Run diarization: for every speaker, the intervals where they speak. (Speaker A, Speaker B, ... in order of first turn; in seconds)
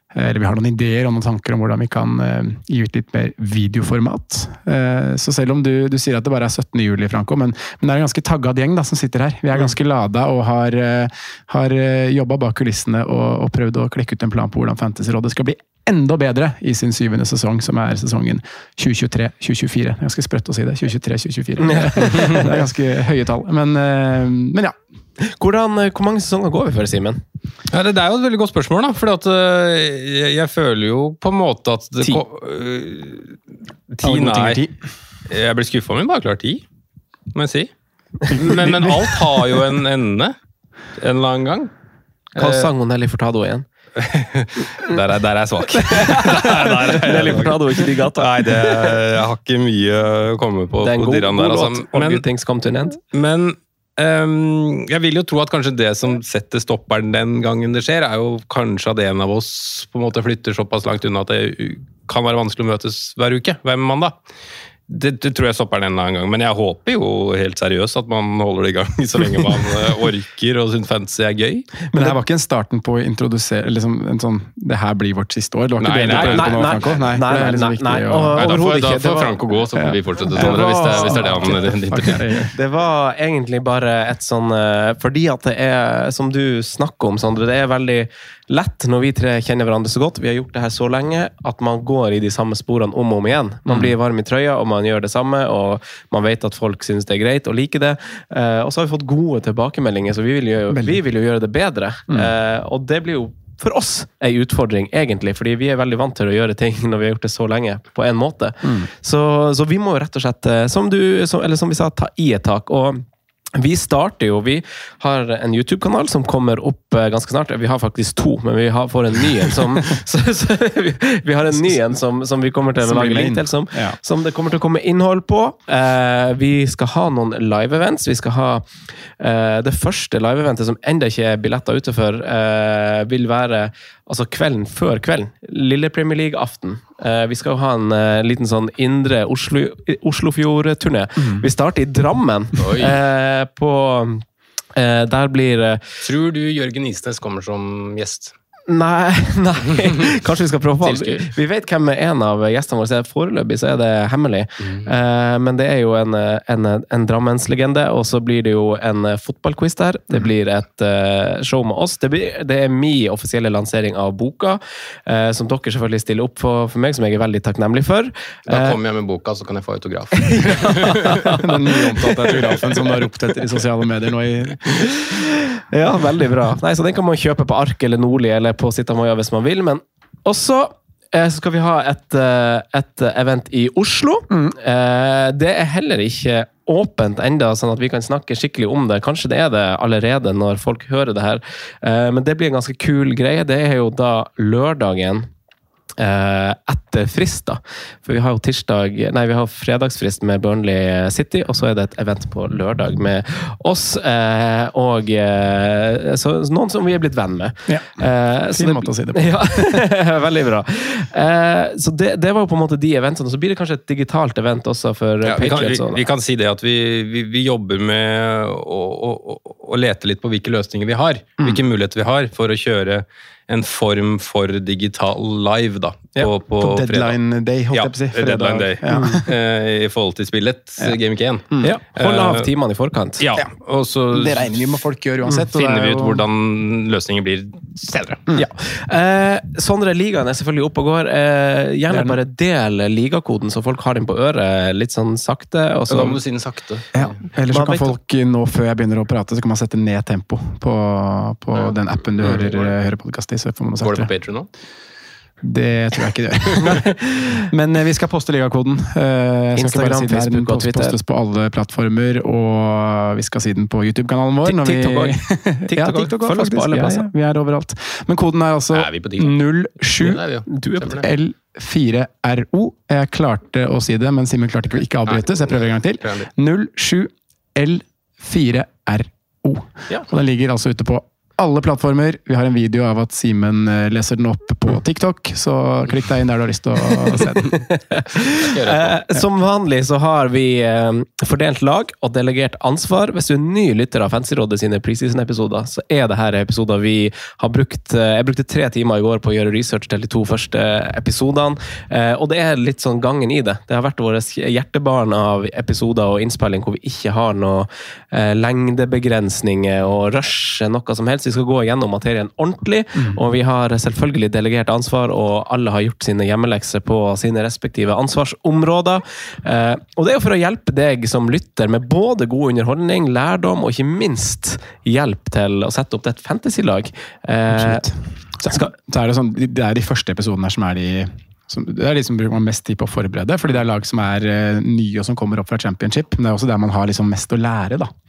Speaker A: 0.1-24.7, 34.0-34.8, 38.3-38.9, 71.9-78.5, 79.8-82.5, 100.7-101.0, 108.6-108.9, 122.8-124.0, 171.3-174.9, 184.3-184.6, 207.7-209.8, 226.6-229.3, 234.1-236.2, 241.9-242.2, 246.9-254.1, 255.4-270.2, 270.9-287.6, 327.5-337.9
Speaker B: 21.6-22.6, 25.2-27.2, 42.4-43.6, 45.9-49.0, 50.8-53.0, 76.1-79.3, 80.3-81.3, 82.5-145.8, 148.7-168.8, 170.2-171.4, 174.9-195.3, 196.0-216.0, 228.9-229.2, 231.6-233.2, 238.3-246.2, 247.5-247.9, 259.5-260.9, 264.4-267.1, 270.5-271.0, 287.5-327.9
Speaker C: 27.7-33.4, 33.9-34.6, 35.3-36.6, 37.3-37.7, 38.3-40.3, 41.0-41.7, 42.4-42.7, 44.0-52.2, 53.1-64.1, 64.9-71.7, 75.8-76.9, 78.4-82.3, 142.6-142.9, 146.0-148.3, 150.8-151.3, 168.5-171.4, 215.2-227.2, 227.7-232.5, 233.2-234.6, 235.2-238.3, 245.9-247.2, 251.5-252.7, 253.8-254.5, 268.7-271.0, 275.1-276.3, 288.3-288.9